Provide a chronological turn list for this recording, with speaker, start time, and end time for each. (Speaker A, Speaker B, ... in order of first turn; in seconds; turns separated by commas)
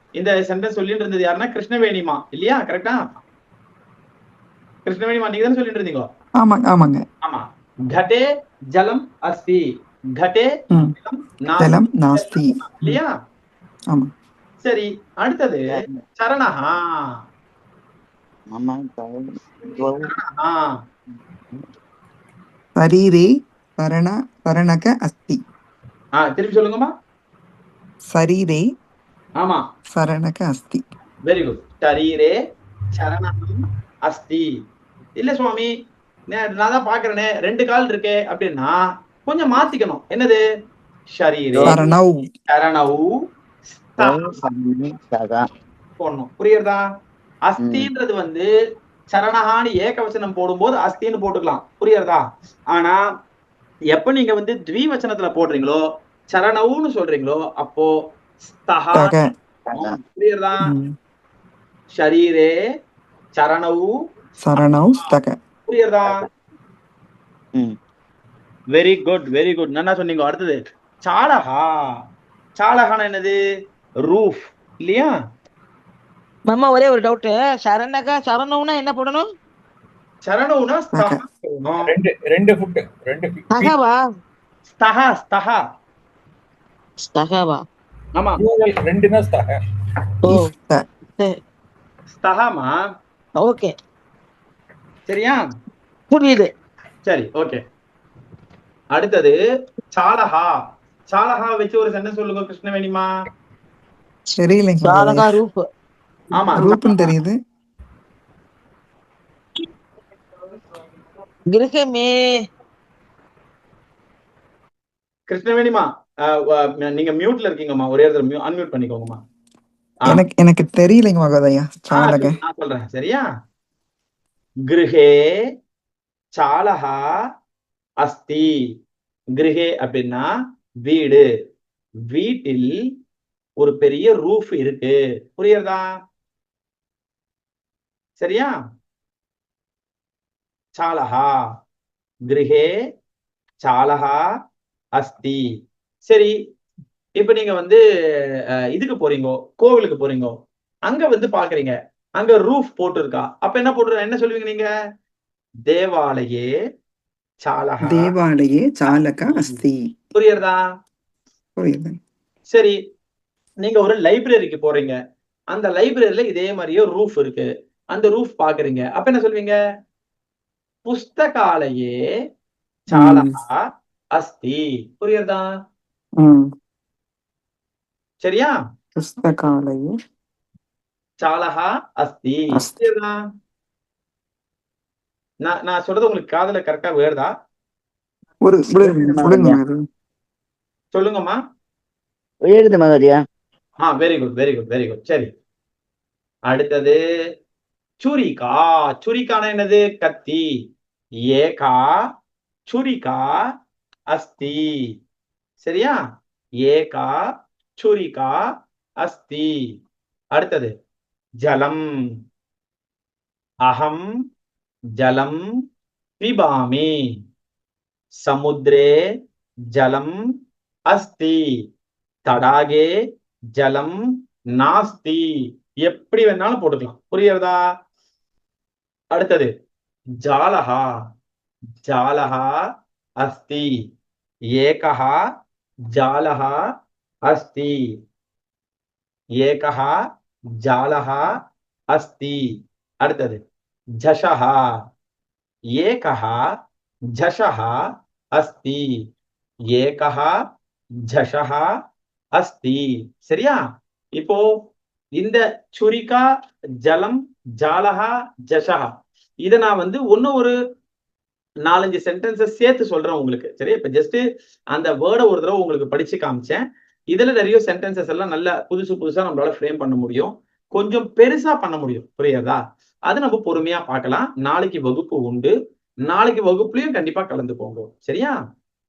Speaker A: 0.2-3.0, Speaker A: 4.9-6.1, Speaker B: 6.4-7.0, Speaker A: 7.2-9.7, Speaker A: 10.2-13.1, Speaker B: 11.6-13.0, Speaker A: 14.6-17.0, Speaker C: 15.7-16.0, Speaker C: 18.5-20.1, Speaker A: 20.0-20.7, Speaker C: 21.1-21.6, Speaker B: 22.8-25.4, Speaker A: 26.2-26.9, Speaker B: 28.1-28.6, Speaker B: 29.9-30.8, Speaker A: 31.3-32.4, Speaker A: 33.0-34.5, Speaker A: 35.2-35.7, Speaker A: 36.3-40.4, Speaker A: 41.2-41.8, Speaker C: 41.5-41.8, Speaker B: 41.7-42.2, Speaker A: 42.5-43.1, Speaker A: 44.0-44.4, Speaker C: 44.0-45.4, Speaker A: 46.0-46.8, Speaker A: 47.5-48.5, Speaker C: 47.6-47.9, Speaker A: 49.1-53.0, Speaker A: 53.9-55.8, Speaker A: 56.3-57.9, Speaker A: 58.5-59.1, Speaker B: 58.9-59.3, Speaker A: 59.8-60.7, Speaker B: 60.6-60.9, Speaker A: 61.9-62.5, Speaker A: 63.4-63.9, Speaker B: 64.4-65.4, Speaker A: 65.7-66.1, Speaker A: 68.7-71.7, Speaker A: 72.6-73.4, Speaker A: 74.0-75.1, Speaker D: 76.5-79.2, Speaker A: 80.2-81.9, Speaker B: 80.9-81.2, Speaker E: 81.8-83.7, Speaker D: 83.5-84.0, Speaker A: 84.8-85.6, Speaker D: 87.1-87.6, Speaker A: 88.2-88.4, Speaker E: 88.4-89.6, Speaker B: 90.3-90.8, Speaker A: 92.2-92.7, Speaker D: 93.4-93.7, Speaker A: 95.1-95.4, Speaker D: 96.1-96.5, Speaker A: 97.0-97.6, Speaker A: 98.9-99.4, Speaker A: 99.9-100.5, Speaker A: 101.1-103.0, Speaker B: 104.4-105.3, Speaker D: 104.8-105.6, Speaker A: 106.3-107.1, Speaker B: 106.6-107.3, Speaker D: 111.5-112.3, Speaker A: 115.3-119.2, Speaker B: 120.1-122.4, Speaker A: 121.9-123.2, Speaker A: 124.7-125.2, Speaker A: 126.4-127.0, Speaker A: 128.0-128.5, Speaker A: 129.4-130.3, Speaker A: 130.8-131.3, Speaker A: 132.1-132.7, Speaker A: 133.6-135.8, Speaker A: 138.2-138.5, Speaker A: 140.8-141.3, Speaker A: 142.3-142.7, Speaker A: 143.6-144.2, Speaker A: 145.0-145.4, Speaker A: 146.1-146.3, Speaker A: 147.2-147.8, Speaker A: 148.7-150.3, Speaker A: 150.9-154.7, Speaker A: 155.7-156.5, Speaker A: 157.4-158.1, Speaker B: 157.8-159.9, Speaker A: 159.3-159.6, Speaker A: 160.2-160.6, Speaker B: 161.6-162.0, Speaker A: 163.6-165.0, Speaker A: 165.5-169.5, Speaker A: 170.9-171.9, Speaker A: 172.9-173.6, Speaker B: 172.9-173.3, Speaker A: 174.2-175.5, Speaker B: 176.2-176.5, Speaker A: 178.2-178.6, Speaker B: 179.0-179.9, Speaker A: 181.2-183.1, Speaker B: 182.6-182.8, Speaker A: 185.4-187.3, Speaker B: 188.4-189.8, Speaker C: 188.8-189.6, Speaker A: 190.9-191.4, Speaker C: 192.4-193.2, Speaker A: 193.8-195.3, Speaker A: 196.5-197.0, Speaker A: 198.0-200.4, Speaker A: 201.3-201.9, Speaker A: 202.7-203.3, Speaker A: 204.1-204.7, Speaker A: 205.6-206.0, Speaker A: 206.7-207.2, Speaker A: 207.8-208.4, Speaker A: 209.0-209.5, Speaker A: 210.3-210.7, Speaker A: 211.4-211.8, Speaker A: 213.7-214.0, Speaker A: 215.0-215.4, Speaker A: 216.2-216.9, Speaker A: 218.2-218.9, Speaker A: 219.8-220.1, Speaker A: 220.9-221.4, Speaker A: 222.3-222.9, Speaker A: 223.6-224.0, Speaker A: 224.6-225.2, Speaker A: 225.8-227.6, Speaker A: 229.1-229.5, Speaker A: 230.2-230.8, Speaker A: 231.8-232.5, Speaker A: 233.2-233.7, Speaker A: 234.6-235.2, Speaker A: 235.9-236.6, Speaker A: 237.3-237.7, Speaker A: 239.4-239.9, Speaker A: 240.6-241.2, Speaker A: 241.9-242.4, Speaker A: 243.0-243.4, Speaker A: 244.0-244.6, Speaker A: 245.8-246.4, Speaker A: 247.2-247.8, Speaker A: 248.4-248.8, Speaker A: 249.7-250.3, Speaker A: 251.1-251.7, Speaker A: 252.4-253.6, Speaker A: 255.2-256.2, Speaker A: 256.8-258.9, Speaker A: 259.4-260.6, Speaker A: 261.6-275.5, Speaker A: 276.1-278.4